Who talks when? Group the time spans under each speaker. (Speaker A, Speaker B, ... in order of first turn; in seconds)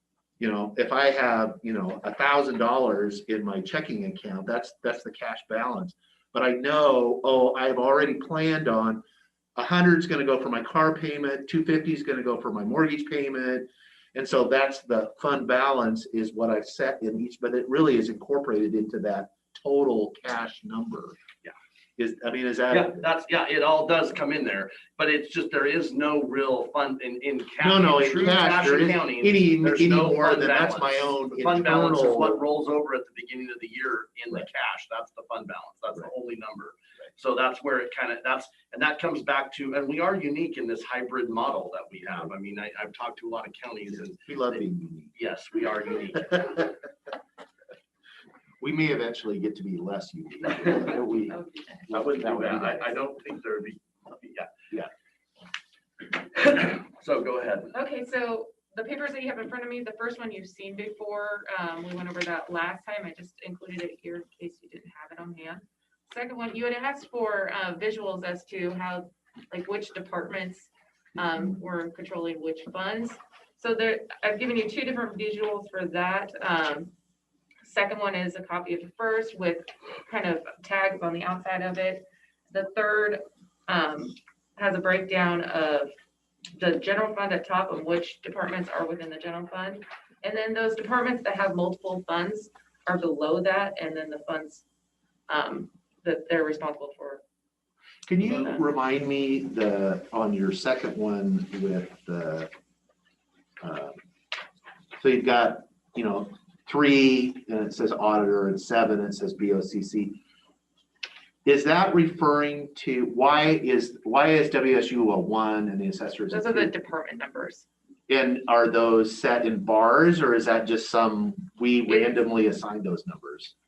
Speaker A: 0.4-9.0, 9.6-21.2, 22.0-23.1, 27.6-32.4, 44.2-45.1, 48.6-52.9, 98.1-102.5, 103.6-104.0, 105.0-110.2, 111.4-116.7, 118.1-123.5
Speaker B: 22.7-44.6, 45.1-46.7, 51.9-54.5, 56.0-57.8
Speaker C: 51.3-51.9, 57.7-76.9, 77.6-85.9, 86.5-94.6, 95.3-97.2, 98.2-98.7, 116.3-117.7, 121.9-122.2